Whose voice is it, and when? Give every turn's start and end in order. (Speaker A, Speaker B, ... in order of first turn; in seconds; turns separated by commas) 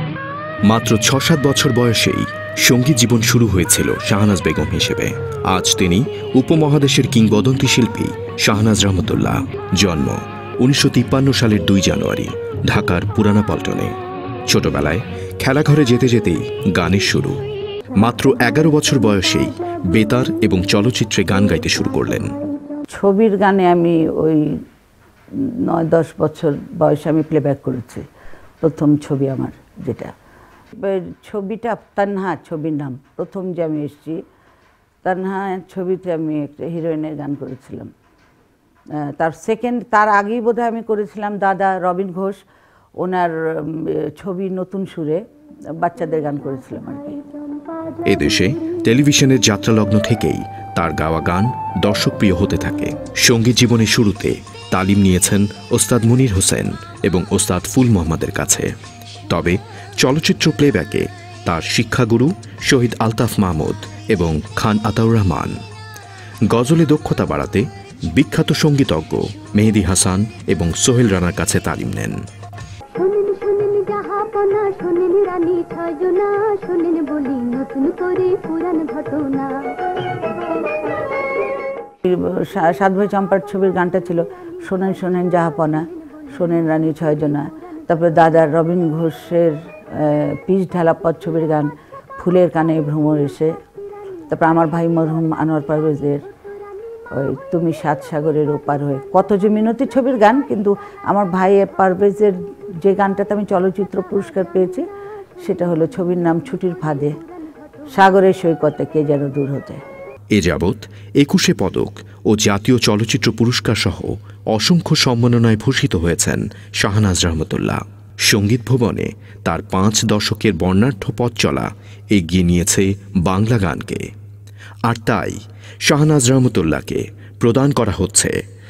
Speaker A: 0.7-13.9, Speaker A: 14.5-17.4, Speaker A: 17.9-22.4, Speaker B: 22.9-24.6, Speaker B: 25.4-28.0, Speaker B: 28.6-30.1, Speaker B: 30.8-34.2, Speaker B: 35.0-37.9, Speaker B: 39.0-42.4, Speaker B: 43.0-45.2, Speaker B: 45.8-47.2, Speaker A: 48.0-58.7, Speaker A: 59.3-65.5, Speaker A: 66.5-72.2, Speaker C: 72.9-80.0, Speaker B: 82.0-93.5, Speaker B: 94.3-96.2, Speaker B: 97.1-104.8, Speaker B: 105.4-107.1, Speaker B: 107.9-109.8, Speaker A: 110.3-124.1, Speaker A: 124.9-128.4